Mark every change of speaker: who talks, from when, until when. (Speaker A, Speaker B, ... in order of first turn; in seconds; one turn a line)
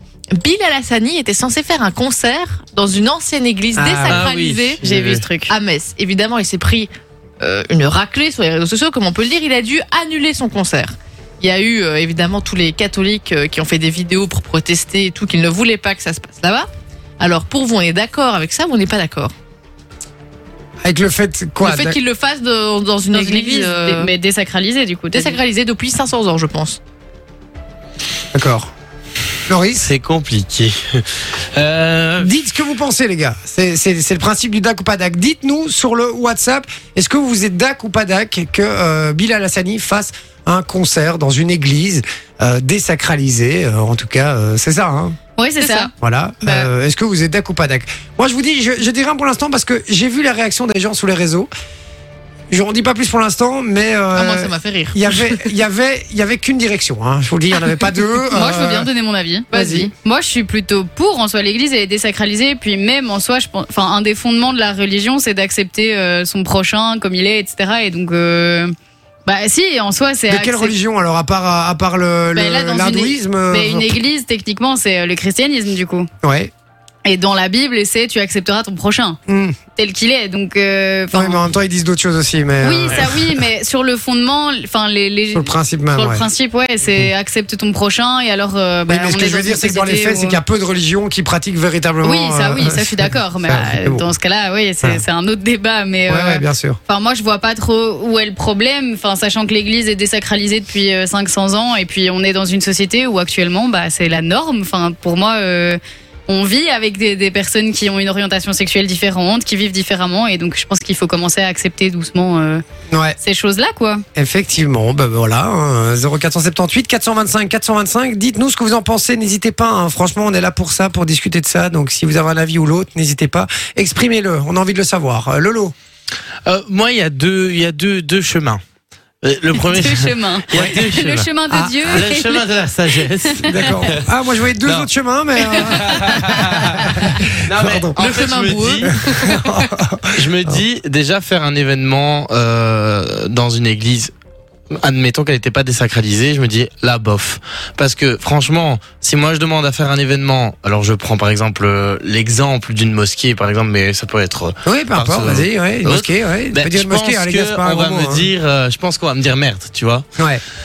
Speaker A: 0.3-4.8
Speaker B: 3.7-4.2
Speaker C: 4.1-5.2
Speaker D: 4.8-5.5
Speaker A: 5.5-16.7
Speaker A: 17.2-19.3
Speaker B: 20.8-22.0
Speaker A: 21.6-24.1
Speaker D: 23.1-25.4
Speaker A: 25.1-26.8
Speaker B: 28.3-28.7
Speaker B: 29.4-29.9
Speaker C: 29.8-32.3
Speaker B: 32.2-45.2
Speaker D: 45.4-45.9
Speaker A: 45.6-45.9
Speaker B: 46.0-51.5
Speaker D: 46.4-46.7
Speaker B: 52.5-58.9
Speaker A: 54.1-55.4
Speaker D: 58.3-68.7
Speaker B: 59.5-59.9
Speaker D: 69.3-70.8
Speaker B: 70.3-74.0
Speaker D: 72.3-76.1
Speaker B: 76.2-76.5
Speaker D: 77.0-79.2
Speaker B: 79.3-79.6
Speaker D: 79.8-81.4
Speaker B: 81.1-83.4
Speaker D: 82.6-90.4
Speaker B: 85.3-86.3
Speaker B: 88.9-94.0
Speaker D: 92.0-112.6
Speaker B: 96.1-96.8
Speaker B: 112.9-113.2
Speaker D: 113.2-114.0
Speaker B: 114.1-125.7
Speaker C: 126.5-128.6
Speaker C: 129.2-131.3
Speaker D: 129.7-132.4
Speaker B: 131.5-131.9
Speaker C: 131.9-134.1
Speaker B: 133.4-137.9
Speaker C: 134.6-134.9
Speaker C: 135.6-139.4
Speaker D: 135.8-136.2
Speaker A: 138.0-139.4
Speaker B: 138.8-140.6
Speaker C: 140.1-144.1
Speaker C: 144.7-160.1
Speaker B: 154.6-158.3
Speaker B: 160.2-160.4